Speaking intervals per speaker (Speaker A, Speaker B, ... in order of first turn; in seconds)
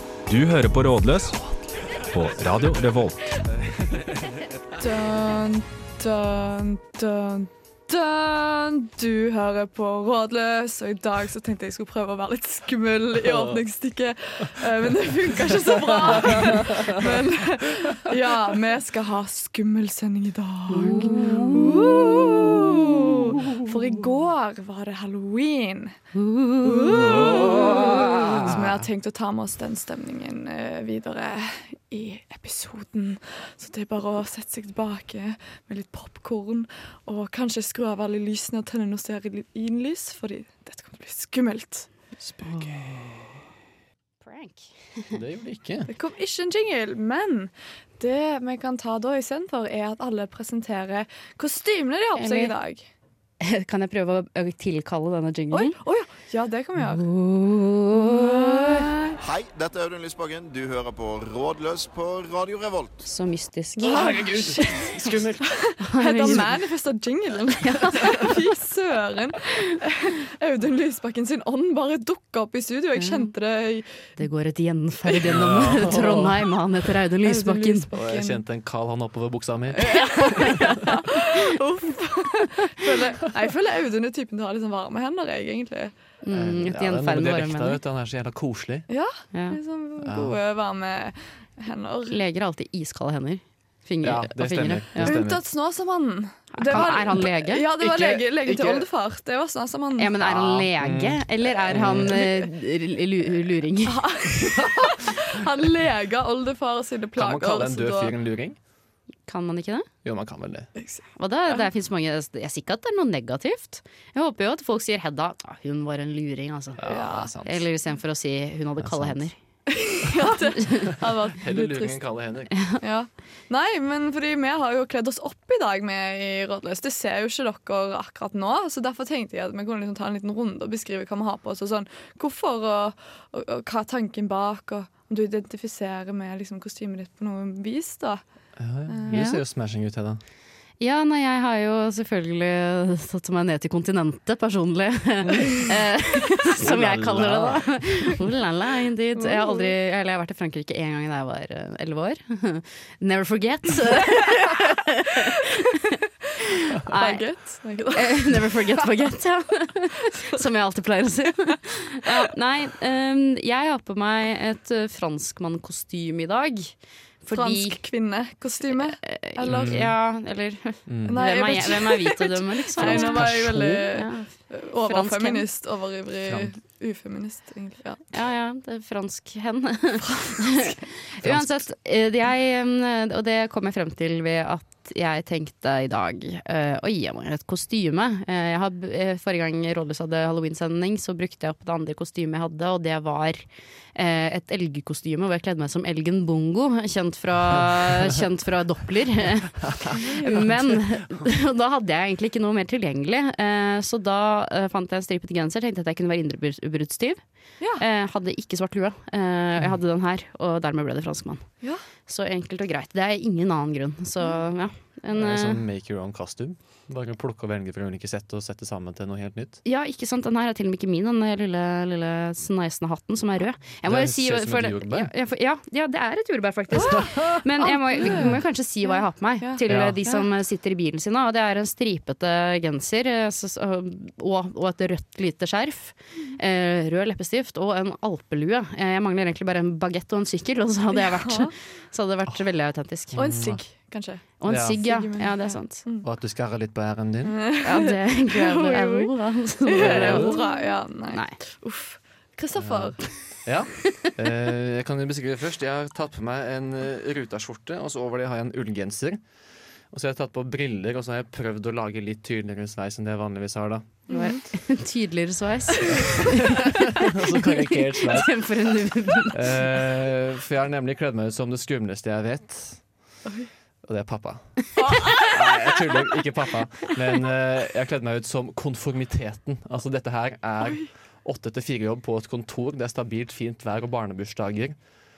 Speaker A: 0.3-1.4, 1.9-3.3
Speaker B: 4.8-25.9, 26.6-41.9, 45.9-52.9, 55.5-57.0, 57.9-59.0, 63.9-73.9, 77.2-78.4, 79.8-85.9, 88.9-92.2, 95.0-100.1, 102.1-102.4, 103.8-108.1, 110.8-111.7, 116.9-117.3, 119.7-122.0, 122.8-138.2, 138.9-139.2, 149.2-149.7, 156.9-158.5, 167.3-169.8, 171.1-178.0, 180.1-180.8, 199.9-200.4, 226.7-230.2, 240.9-241.5, 243.2-246.1, 247.2-253.1, 264.1-264.4, 273.2-273.5, 274.8-275.8, 280.6-280.9
Speaker C: 13.3-13.6, 15.5-17.1, 27.0-28.9, 42.2-43.4, 45.1-45.9, 63.8-66.5, 75.2-76.5, 77.9-80.7, 86.3-88.9, 90.0-90.4, 94.0-95.4, 96.7-97.0, 97.8-98.9, 100.2-102.2, 104.4-105.1, 107.2-108.6, 110.0-110.7, 116.8-117.7, 118.8-119.3, 121.0-122.5, 138.6-140.2, 145.2-145.7, 146.6-147.8, 169.5-169.9, 170.9-171.3, 172.8-173.9, 176.2-176.5, 181.2-181.6, 199.7-200.4, 215.1-219.6, 223.8-225.1, 226.8-227.3, 228.1-228.3, 229.7-230.0, 243.1-243.6, 244.4-244.8, 246.0-247.4, 249.8-250.4, 252.5-259.2, 259.9-264.0, 265.9-268.7, 269.3-272.8, 273.8-284.8
Speaker D: 20.7-21.9, 26.1-27.1, 42.4-42.8, 44.2-45.1, 52.1-52.5, 53.4-55.8, 56.8-59.1, 63.0-64.7, 65.8-66.5, 67.6-68.3, 73.0-73.3, 74.2-77.9, 79.9-81.4, 82.4-82.7, 86.2-87.8, 89.3-89.6, 92.1-95.2, 96.5-97.7, 100.0-104.0, 109.3-109.9, 111.2-119.3, 139.1-139.4, 140.8-167.8, 168.7-175.4, 178.1-207.2, 207.8-211.5, 212.1-215.6, 219.6-243.3, 244.4-245.8, 247.6-251.3, 264.1-269.6
Speaker E: 59.2-63.0